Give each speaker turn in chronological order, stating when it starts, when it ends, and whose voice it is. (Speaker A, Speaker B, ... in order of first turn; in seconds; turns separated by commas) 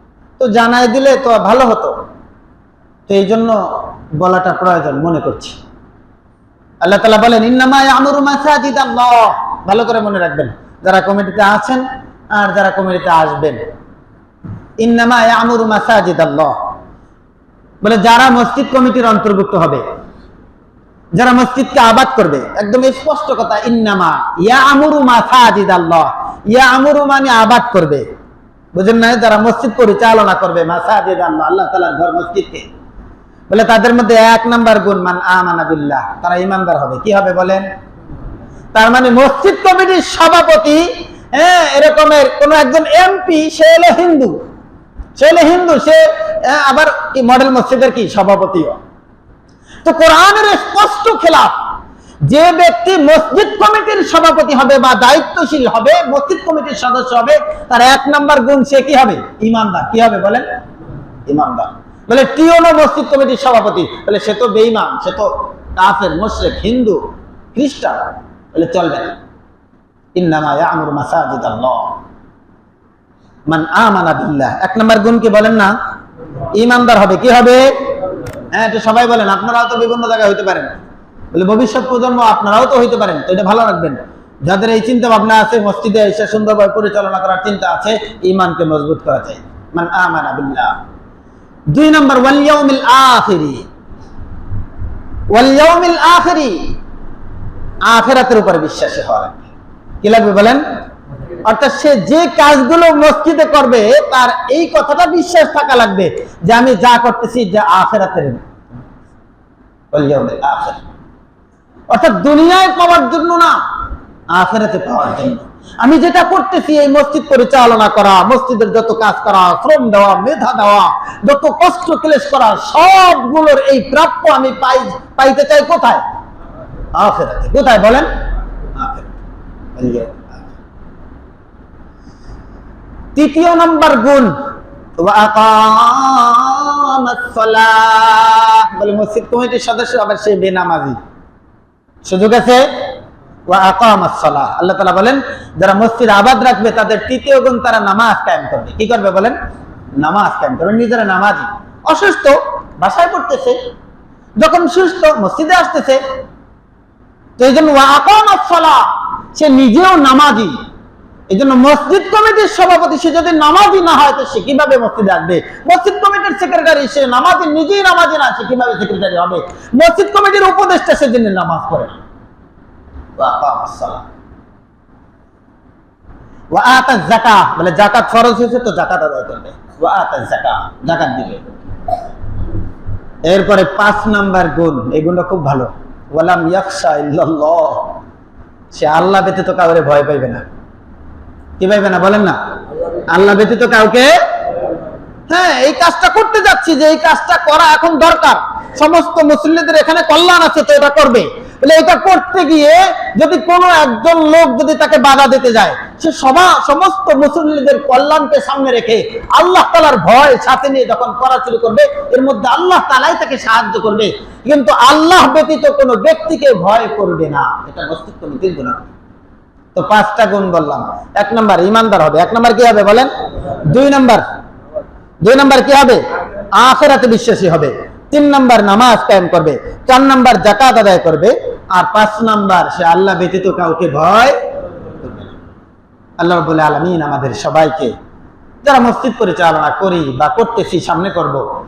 Speaker A: 0.4-1.9, Speaker A: 3.1-5.6, Speaker A: 6.8-13.6, Speaker A: 14.8-16.6, Speaker A: 17.8-19.8, Speaker A: 21.1-28.1, Speaker A: 28.7-32.7, Speaker A: 33.5-37.6, Speaker A: 38.7-44.4, Speaker A: 45.1-48.8, Speaker A: 49.8-51.5, Speaker A: 52.2-60.5, Speaker A: 61.3-67.0, Speaker A: 67.5-69.2, Speaker A: 70.1-72.0, Speaker A: 73.5-75.7, Speaker A: 76.5-77.7, Speaker A: 78.5-80.8, Speaker A: 81.3-90.8, Speaker A: 91.7-93.6, Speaker A: 95.3-96.7, Speaker A: 97.8-100.6, Speaker A: 101.4-108.4, Speaker A: 109.9-110.8, Speaker A: 111.9-113.6, Speaker A: 114.3-126.0, Speaker A: 126.9-128.1, Speaker A: 128.7-129.1, Speaker A: 129.8-130.4, Speaker A: 133.1-134.3, Speaker A: 135.0-141.0, Speaker A: 142.0-142.7, Speaker A: 143.4-149.3, Speaker A: 150.0-153.6, Speaker A: 154.4-156.0, Speaker A: 157.4-160.6, Speaker A: 161.3-172.0, Speaker A: 173.2-174.1, Speaker A: 176.5-181.4, Speaker A: 183.2-188.0, Speaker A: 188.7-190.4, Speaker A: 191.6-192.4, Speaker A: 193.1-194.1, Speaker A: 195.3-218.9, Speaker A: 219.7-224.2, Speaker A: 225.2-226.0, Speaker A: 226.5-235.3, Speaker A: 236.2-237.9, Speaker A: 238.6-241.4